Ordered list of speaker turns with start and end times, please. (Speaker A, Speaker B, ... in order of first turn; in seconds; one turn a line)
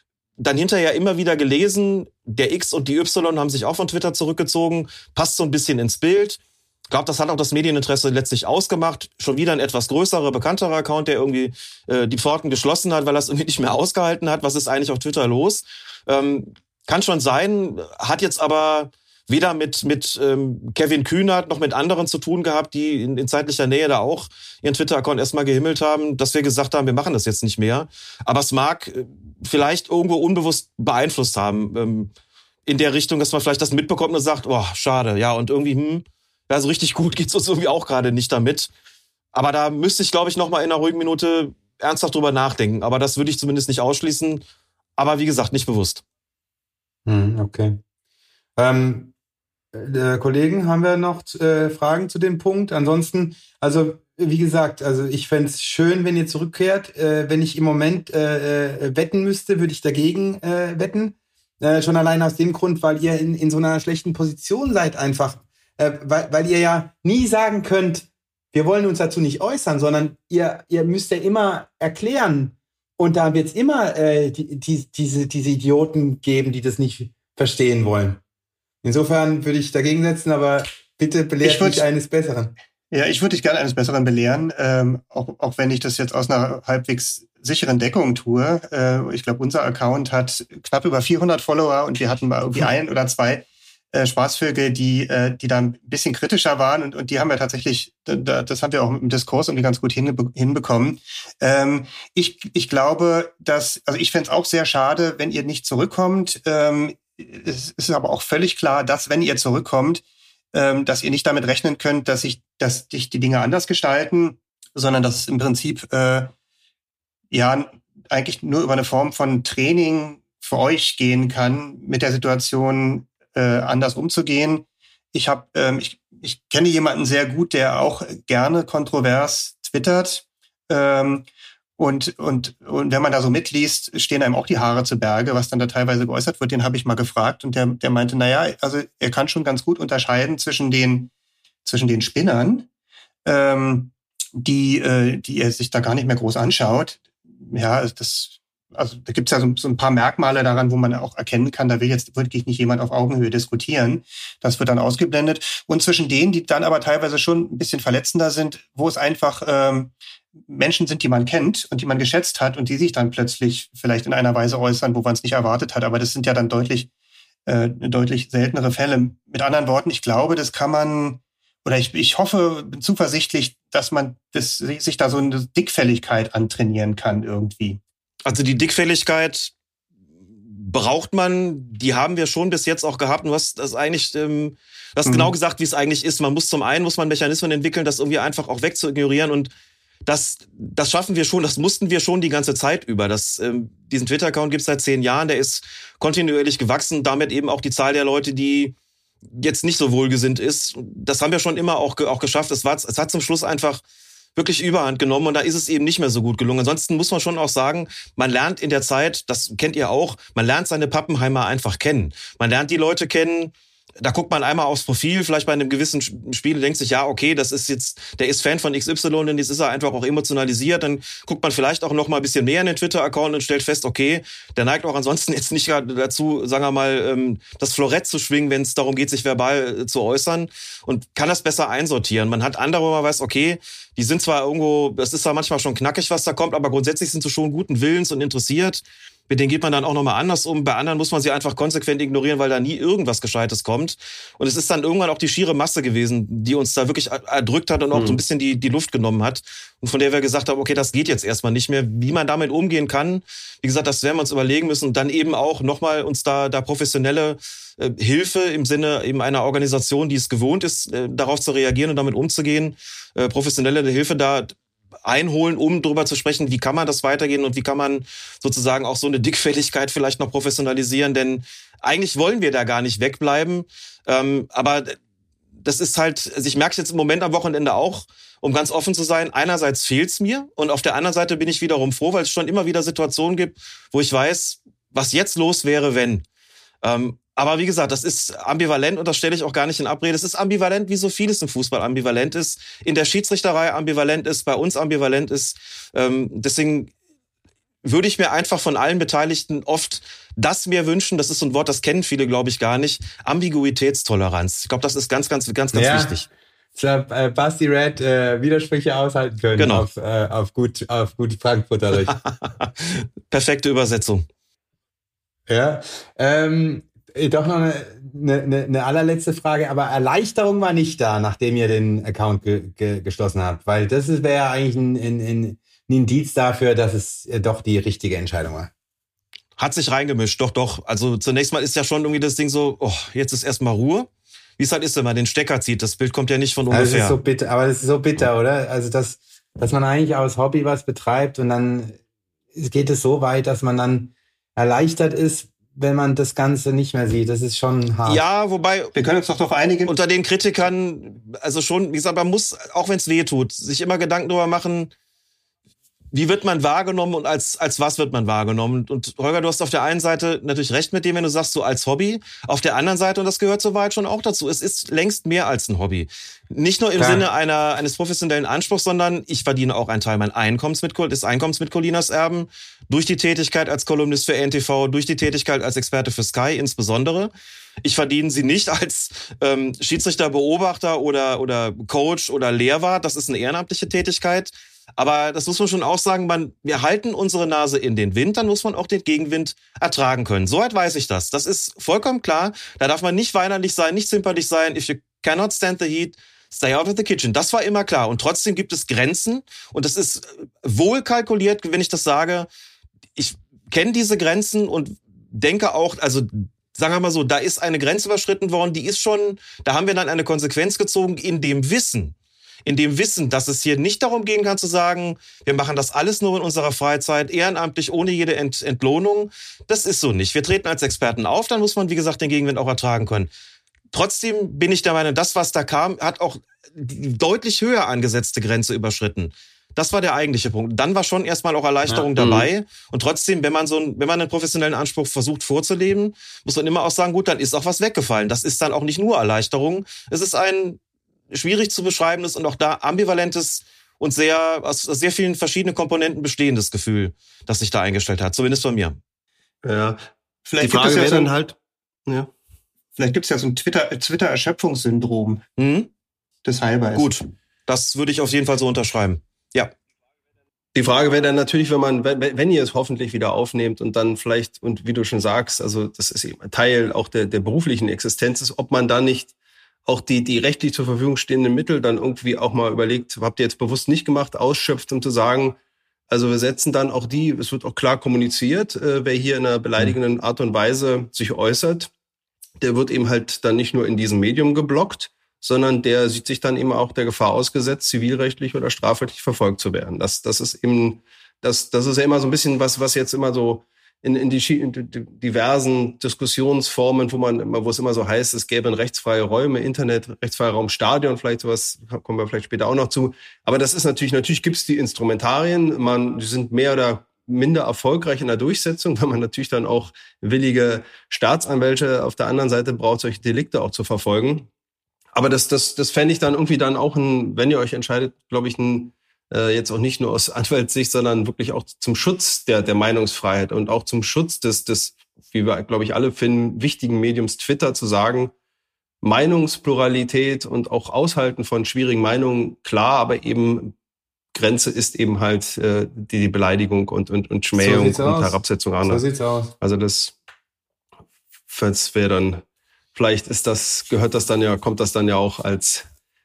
Speaker A: 0.4-32.1
Speaker A: 32.6-38.7
Speaker A: 39.3-44.4
Speaker A: 45.0-46.0
Speaker B: 47.0-47.8
Speaker B: 48.5-49.1
Speaker B: 49.7-78.2
Speaker B: 78.8-82.5
Speaker C: 81.4-81.8
Speaker C: 82.9-116.3
Speaker C: 117.3-141.1
Speaker C: 141.6-142.7
Speaker C: 143.2-159.9
Speaker C: 160.4-166.9
Speaker C: 167.5-177.8
Speaker A: 178.2-179.5
Speaker A: 180.5-189.5
Speaker C: 185.1-185.3
Speaker A: 190.1-198.7
Speaker A: 199.3-203.8
Speaker A: 204.3-275.0
Speaker D: 247.9-248.2
Speaker A: 275.6-286.2
Speaker A: 286.8-296.9
Speaker A: 297.8-306.3
Speaker B: 305.7-306.1
Speaker B: 306.7-312.2
Speaker A: 309.6-309.9
Speaker A: 312.4-314.2
Speaker B: 315.5-328.7
Speaker A: 329.6-337.2
Speaker B: 336.7-342.0
Speaker B: 342.5-348.2
Speaker A: 348.0-348.9
Speaker C: 348.9-349.9
Speaker A: 349.9-354.9
Speaker A: 356.1-377.3
Speaker B: 367.0-367.3
Speaker A: 377.8-402.5
Speaker A: 403.1-412.1
Speaker A: 412.6-423.3
Speaker A: 423.9-440.8
Speaker D: 432.2-432.5
Speaker A: 441.3-449.0
Speaker D: 449.6-450.1
Speaker C: 450.5-451.3
Speaker D: 450.6-451.5
Speaker C: 453.0-455.4
Speaker A: 455.6-455.9
Speaker C: 456.4-457.1
Speaker A: 456.9-459.7
Speaker D: 460.7-469.3
Speaker D: 469.9-475.6
Speaker D: 476.1-481.9
Speaker D: 482.6-514.5
Speaker D: 515.1-528.3
Speaker D: 529.0-533.7
Speaker D: 534.3-539.0
Speaker B: 537.5-539.5
Speaker D: 539.6-540.1
Speaker D: 541.5-542.4
Speaker D: 542.9-545.9